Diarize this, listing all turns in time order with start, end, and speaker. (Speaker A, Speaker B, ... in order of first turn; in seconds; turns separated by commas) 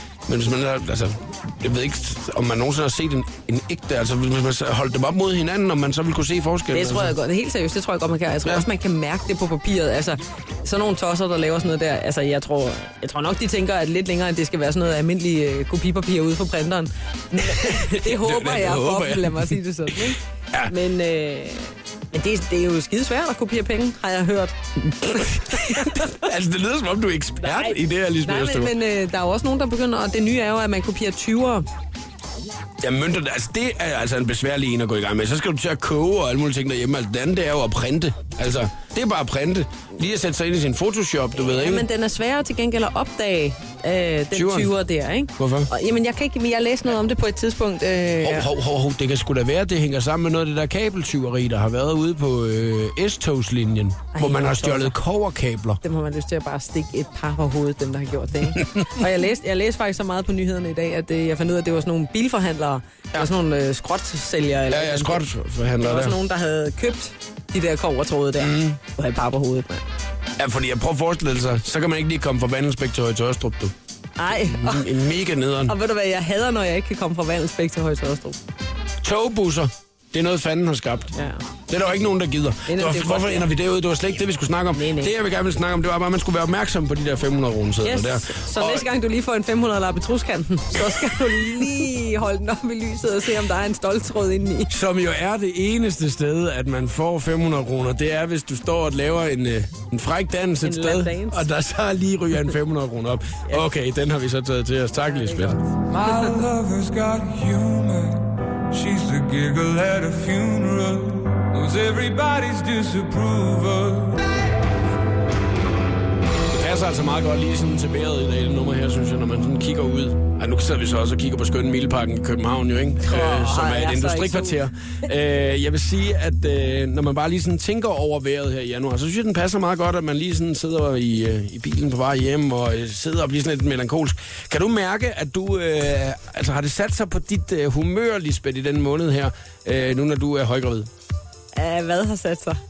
Speaker A: 0.3-7.1, Speaker B: 6.7-26.3, Speaker A: 17.4-19.9, Speaker A: 25.1-28.7, Speaker B: 27.4-31.6, Speaker A: 32.8-41.9, Speaker B: 41.3-48.5, Speaker A: 44.3-44.7, Speaker A: 45.4-45.7, Speaker A: 48.2-55.8, Speaker B: 54.1-55.0, Speaker B: 55.8-65.2, Speaker A: 64.7-66.2, Speaker B: 65.8-69.8, Speaker A: 68.4-68.8, Speaker A: 70.4-73.7, Speaker B: 74.2-75.0, Speaker A: 74.3-75.8, Speaker B: 75.6-78.4, Speaker A: 79.0-81.1, Speaker B: 81.1-81.4, Speaker A: 81.7-88.8, Speaker B: 82.7-83.5, Speaker B: 84.7-85.1, Speaker B: 87.8-94.7, Speaker A: 94.7-105.6, Speaker B: 100.6-101.5, Speaker B: 105.0-106.3, Speaker C: 105.9-114.3, Speaker A: 116.5-140.9, Speaker B: 123.0-124.6, Speaker B: 141.5-142.6